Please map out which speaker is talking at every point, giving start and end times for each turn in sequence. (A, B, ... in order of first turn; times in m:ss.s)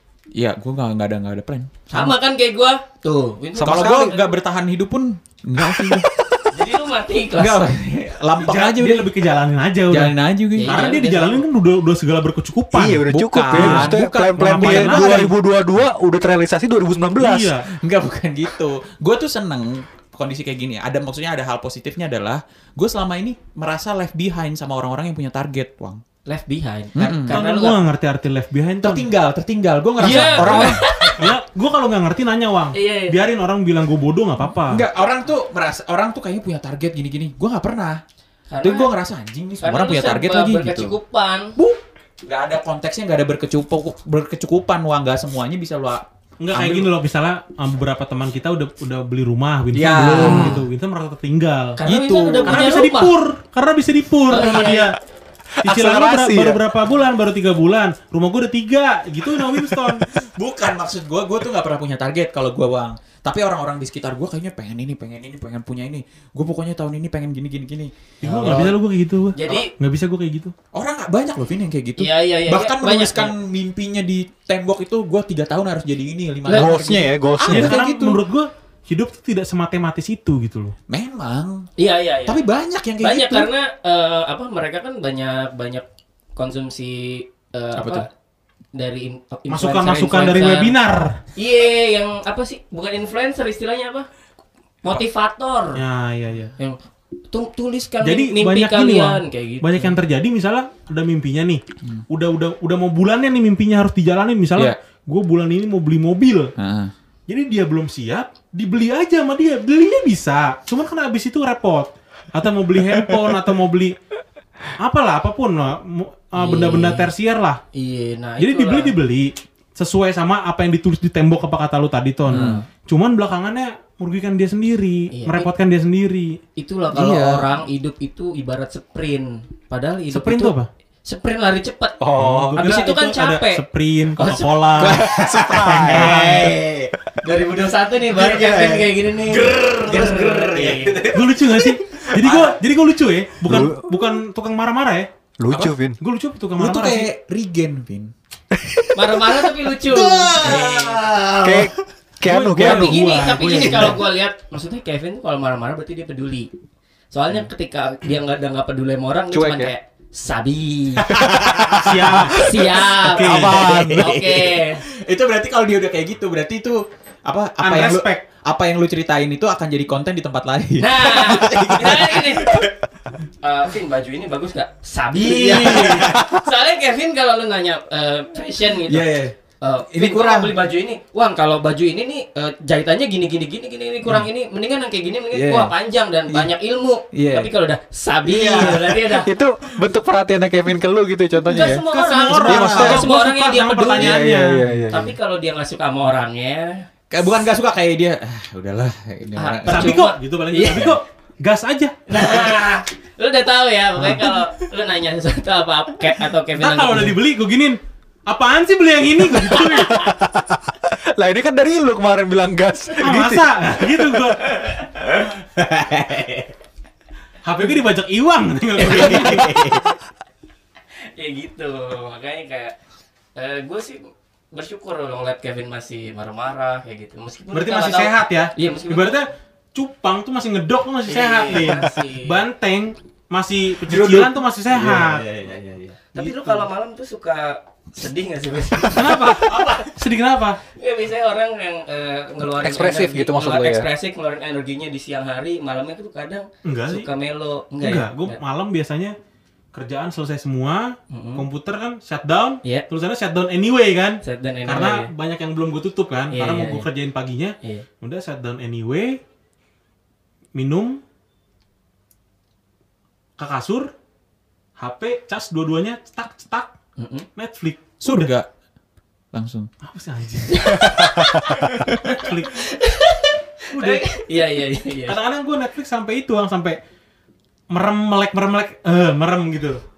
0:00.4-0:02.2 A
0:01.9-0:04.3 B
0:03.6-0:04.2 C
0:03.6-0:06.3 A
0:05.7-0:06.0 C
0:06.5-0:07.7 B
0:07.3-0:09.1 A
0:08.4-0:15.3 D
0:09.9-0:10.9 A
0:10.6-0:11.4 B
0:12.7-0:17.6 C
0:13.1-0:15.3 A
0:17.2-0:17.7 D
0:17.7-0:26.0 A
0:26.3-0:27.8 B
0:27.0-0:27.4 A
0:27.3-0:29.1 D
0:28.8-0:30.8 A
0:30.0-0:31.3 B
0:30.0-0:34.9 D
0:32.7-0:33.2 B
0:34.7-0:38.0 A
0:38.5-0:38.9 B
0:38.6-0:41.0 A
0:39.6-0:41.6 B
0:41.6-0:46.9 A
0:46.4-0:51.8 D
0:49.7-0:50.6 A
0:50.2-0:50.6 C
0:51.8-0:53.1 B
0:51.8-0:52.7 A
0:52.4-0:55.0 D
0:54.3-0:54.9 B
0:55.6-0:56.6 C
0:55.6-1:00.0 D
0:59.9-1:08.8 A
1:08.2-1:10.5 D
1:09.3-1:09.7 B
1:10.7-1:18.2 A
1:12.0-1:13.3 B
1:16.4-1:16.9 B
1:16.5-1:17.8 C
1:17.5-1:20.7 D
1:20.9-1:21.7 A
1:21.8-1:22.4 B
1:22.3-1:23.5 A
1:23.0-1:25.8 B
1:26.4-1:28.1 B
1:27.8-1:28.0 A
1:28.7-1:30.7 B
1:29.5-1:31.2 D
1:31.4-1:34.1 B
1:34.8-1:35.8 B
1:35.8-1:36.6 D
1:37.3-1:40.0 B
1:38.0-1:46.5 D
1:46.6-1:46.9 A
1:47.3-1:53.9 D
1:54.8-1:57.6 D
1:56.4-1:57.1 B
1:57.7-1:58.9 B
1:58.4-2:06.4 D
2:02.3-2:02.6 A
2:02.3-2:02.6 B
2:05.1-2:05.5 B
2:06.6-2:10.6 B
2:06.9-2:07.5 A
2:10.1-2:10.7 D
2:11.1-2:12.0 B
2:12.0-2:12.8 C
2:12.2-2:15.1 D
2:12.6-2:13.6 B
2:14.2-2:14.5 B
2:14.7-2:16.9 A
2:15.0-2:16.2 C
2:15.8-2:16.6 D
2:17.2-2:21.0 B
2:18.1-2:22.6 A
2:21.1-2:25.1 D
2:23.4-2:23.8 C
2:25.4-2:26.0 C
2:25.5-2:25.7 A
2:26.0-2:27.1 D
2:26.6-2:28.1 A
2:28.9-2:31.0 B
2:29.7-2:31.7 A
2:31.4-2:33.0 C
2:32.2-2:34.0 D
2:32.6-2:36.5 B
2:33.4-2:34.0 A
2:37.1-2:41.2 B
2:39.3-2:39.7 C
2:41.1-2:52.7 A
2:41.4-2:42.2 C
2:41.8-2:43.8 D
2:42.3-2:44.8 B
2:43.2-2:44.1 C
2:47.6-2:48.2 D
2:50.8-2:52.7 B
2:53.4-2:59.1 B
2:55.2-2:56.4 A
2:58.9-2:59.4 A
2:59.6-3:09.3 B
2:59.9-3:00.6 A
3:05.3-3:05.7 A
3:07.1-3:07.5 A
3:08.2-3:09.0 A
3:08.5-3:11.8 C
3:11.4-3:11.8 A
3:11.5-3:14.2 B
3:11.9-3:14.6 D
3:12.4-3:13.0 A
3:12.5-3:13.1 C
3:14.0-3:15.1 C
3:14.9-3:16.8 B
3:17.1-3:20.0 A
3:19.4-3:21.0 B
3:19.7-3:22.0 D
3:22.1-3:27.2 B
3:24.0-3:24.3 D
3:26.6-3:29.9 D
3:29.5-3:33.4 C
3:33.0-3:34.9 D
3:35.6-3:36.5 A
3:37.4-3:39.7 D
3:38.8-3:39.9 A
3:41.0-3:42.8 B
3:43.4-3:49.2 B
3:47.5-3:55.3 D
3:51.1-3:52.4 B
3:53.9-3:56.0 A
3:56.1-3:59.7 B
3:56.2-3:56.7 D
3:59.0-4:00.6 D
3:59.4-3:59.9 A
4:00.8-4:08.4 B
4:02.6-4:03.9 C
4:06.6-4:07.1 D
4:07.8-4:09.1 D
4:09.7-4:19.2 D
4:11.1-4:11.4 B
4:14.2-4:15.1 B
4:16.3-4:16.9 B
4:20.6-4:21.0 D
4:23.4-4:23.9 D
4:24.8-4:26.7 D
4:27.0-4:27.3 B
4:27.4-4:28.3 D
4:28.0-4:28.5 A
4:29.3-4:29.7 A
4:29.8-4:30.8 D
4:30.5-4:35.2 B
4:32.0-4:32.6 D
4:33.7-4:34.2 D
4:35.1-4:36.8 D
4:37.7-4:39.8 D